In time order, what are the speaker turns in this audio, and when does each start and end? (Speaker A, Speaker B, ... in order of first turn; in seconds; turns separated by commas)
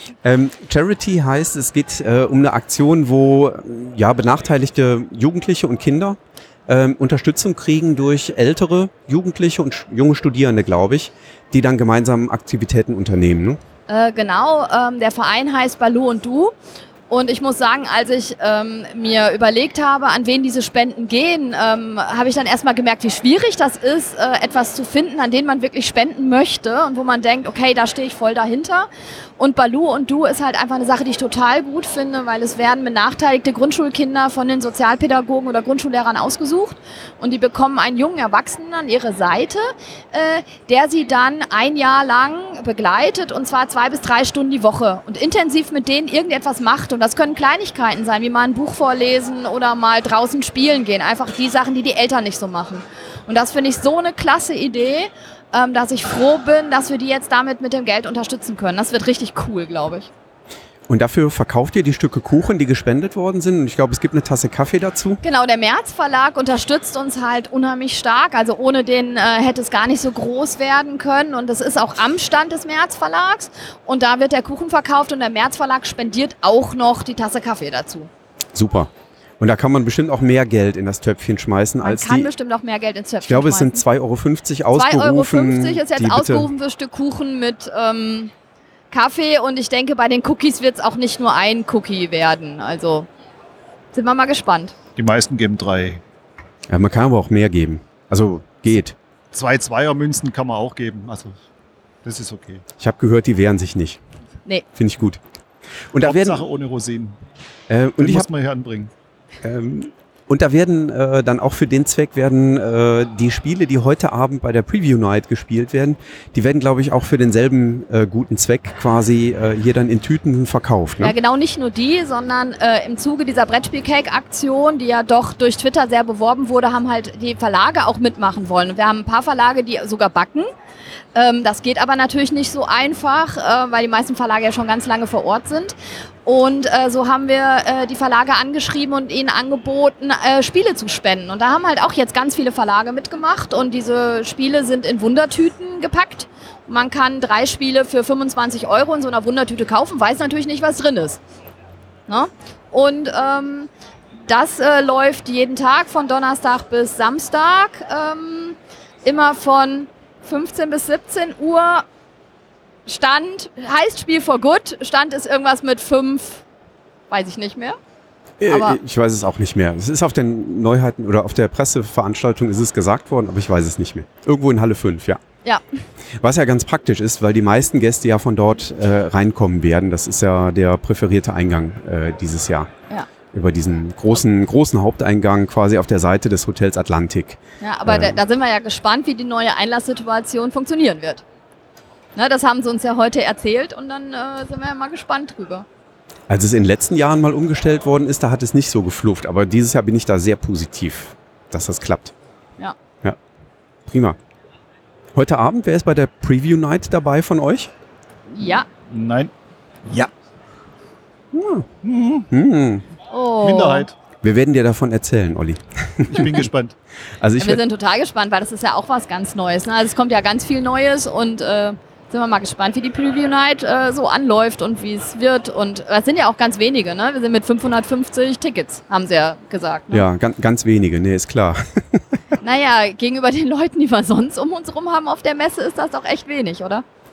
Speaker A: 0.2-13.6, Speaker B: 13.9-16.5, Speaker B: 17.1-28.9, Speaker B: 29.4-60.1, Speaker A: 60.9-65.2, Speaker B: 65.2-78.1, Speaker A: 78.5-82.3, Speaker B: 81.8-83.8, Speaker A: 83.3-86.5, Speaker B: 84.7-88.3, Speaker B: 88.9-93.1, Speaker B: 93.9-94.8, Speaker C: 95.0-96.0, Speaker A: 96.7-99.0, Speaker C: 99.3-101.3, Speaker C: 102.0-102.6, Speaker A: 102.8-104.0, Speaker A: 104.8-105.2, Speaker A: 105.9-106.4, Speaker C: 106.0-107.2, Speaker A: 107.7-108.3, Speaker C: 108.0-108.9, Speaker A: 109.4-121.1, Speaker B: 121.0-130.5, Speaker B: 131.2-151.2, Speaker B: 152.1-153.7, Speaker B: 154.2-161.9, Speaker B: 162.9-166.4, Speaker B: 167.1-167.8, Speaker A: 168.4-175.2, Speaker B: 168.5-168.8, Speaker A: 176.2-182.7, Speaker A: 183.3-188.2, Speaker B: 187.6-191.2, Speaker B: 192.2-195.7, Speaker A: 196.3-202.1, Speaker A: 203.9-204.2, Speaker A: 205.2-207.7, Speaker B: 208.3-208.7, Speaker C: 208.9-209.3, Speaker A: 211.3-211.7, Speaker C: 211.8-212.3, Speaker A: 212.3-212.8, Speaker B: 213.1-213.9, Speaker C: 213.4-213.9, Speaker A: 214.2-216.4, Speaker C: 216.1-216.8, Speaker A: 217.2-217.6, Speaker B: 217.4-230.1, Speaker A: 229.9-232.0, Speaker B: 232.4-236.8